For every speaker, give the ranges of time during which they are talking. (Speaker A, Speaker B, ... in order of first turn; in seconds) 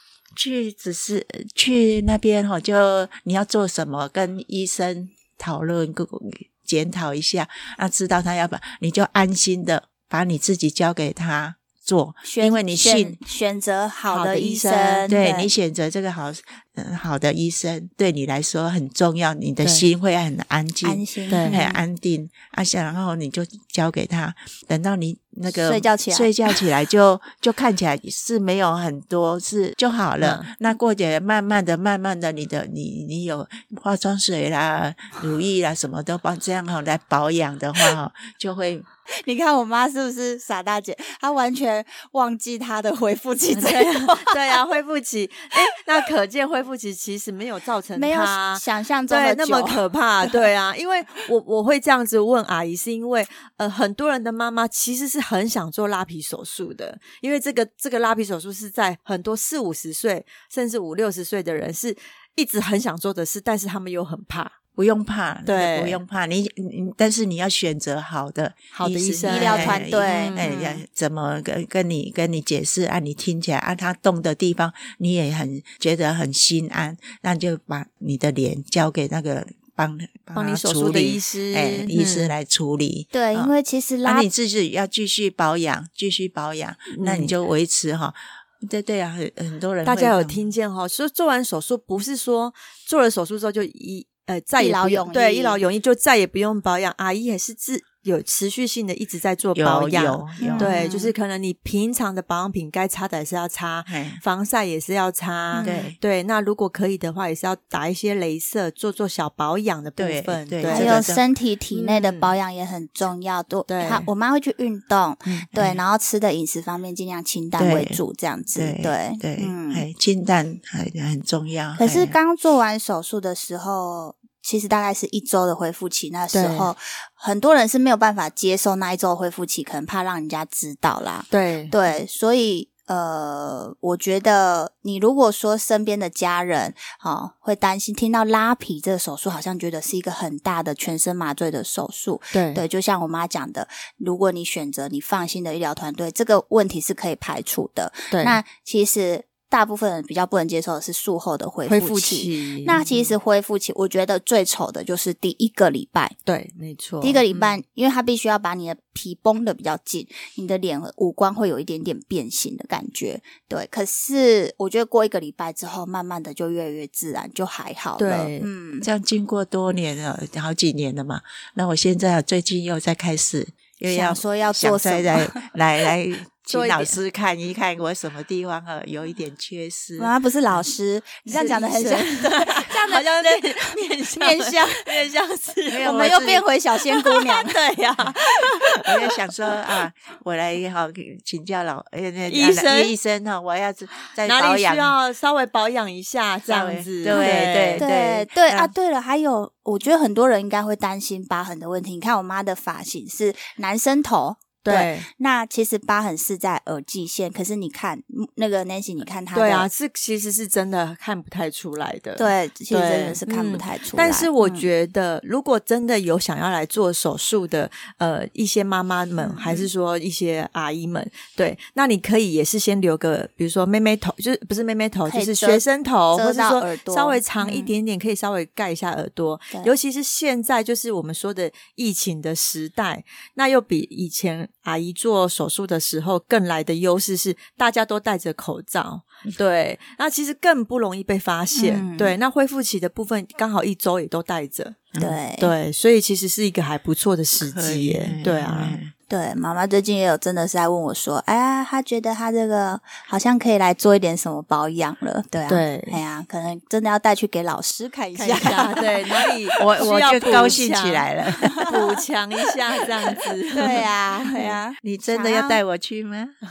Speaker A: 0.3-13.2, 15.1-38.9, 64.7-83.5, 84.0-90.4, 99.5-100.7, 103.9-104.2, 105.6-106.0, 110.0-111.2, 117.6-118.0, 118.5-122.2, 168.8-180.1, 185.7-186.4, 188.8-194.9, 196.5-198.7, 247.4-248.9, 259.6-261.8, 264.8-266.3
Speaker B: 12.2-15.5, 20.8-21.8, 25.5-26.3, 39.2-44.6, 47.9-50.4, 69.2-70.8, 83.1-84.3, 94.6-95.6, 100.4-101.1, 105.5-105.9, 110.7-119.8, 121.8-156.1, 157.0-168.9, 173.9-175.5, 180.0-184.9, 185.8-187.6, 197.1-209.7, 212.2-214.7, 219.2-219.7, 225.1-227.7, 241.6-242.2, 245.0-245.5, 249.1-260.3, 263.5-265.6
Speaker C: 14.1-15.1, 21.3-21.6, 30.2-30.5, 43.5-64.6, 65.5-66.0, 68.7-70.6, 80.3-82.3, 86.9-87.3, 89.8-111.0, 111.7-112.3, 113.7-114.1, 126.3-126.7, 131.3-131.9, 142.3-142.6, 148.1-148.4, 151.7-153.1, 156.3-157.6, 168.0-168.5, 176.5-176.9, 181.3-186.2, 186.9-189.2, 192.3-192.9, 194.2-198.1, 204.6-205.1, 209.3-248.8, 255.5-256.0, 258.1-261.1, 261.6-263.9